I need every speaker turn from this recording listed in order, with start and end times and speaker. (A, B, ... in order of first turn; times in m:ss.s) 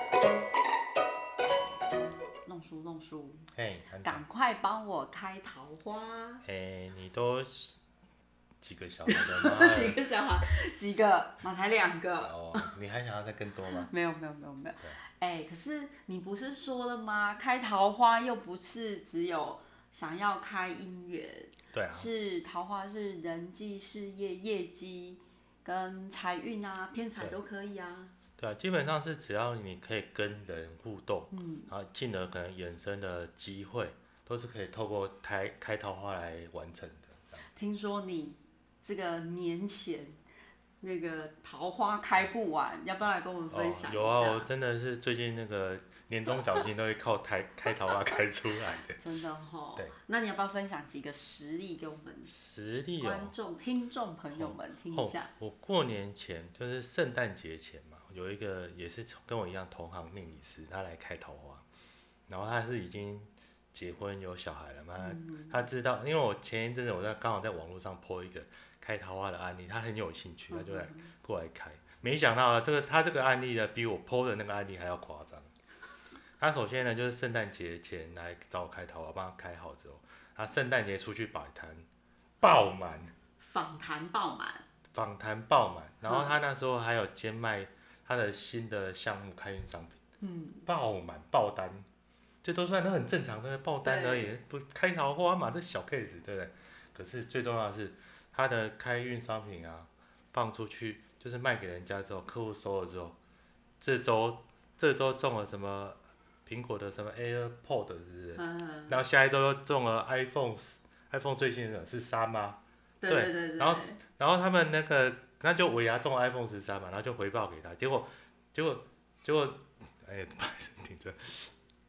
0:02.4-0:03.5 A
0:03.5-0:04.2 B
0:04.0-0:06.4 A
0:06.4-0:07.8 B
0:08.6-0:10.0 B
0:09.1-0:12.7 A
0:12.2-0:13.9 B
0:13.7-0:28.1 A
0:21.7-0:22.1 B
0:28.4-0:37.4 B
0:31.3-0:31.7 A
0:37.5-0:40.2 A
0:40.8-0:44.5 A
0:43.5-0:49.0 B
0:49.0-0:52.3 A
0:52.3-0:53.4 B
0:53.0-0:55.3 A
0:54.3-1:01.6 B
1:02.3-1:15.5 B
1:05.0-1:05.6 A
1:10.5-1:11.1 A
1:16.4-1:21.9 B
1:22.4-1:23.1 B
1:23.4-1:24.6 A
1:24.9-1:30.0 B
1:26.0-1:26.3 A
1:30.2-1:30.7 A
1:30.7-1:31.9 B
1:32.4-1:43.2 B
1:33.8-1:34.4 A
1:43.8-2:01.5 B
1:48.4-1:49.0 A
1:53.0-1:54.0 A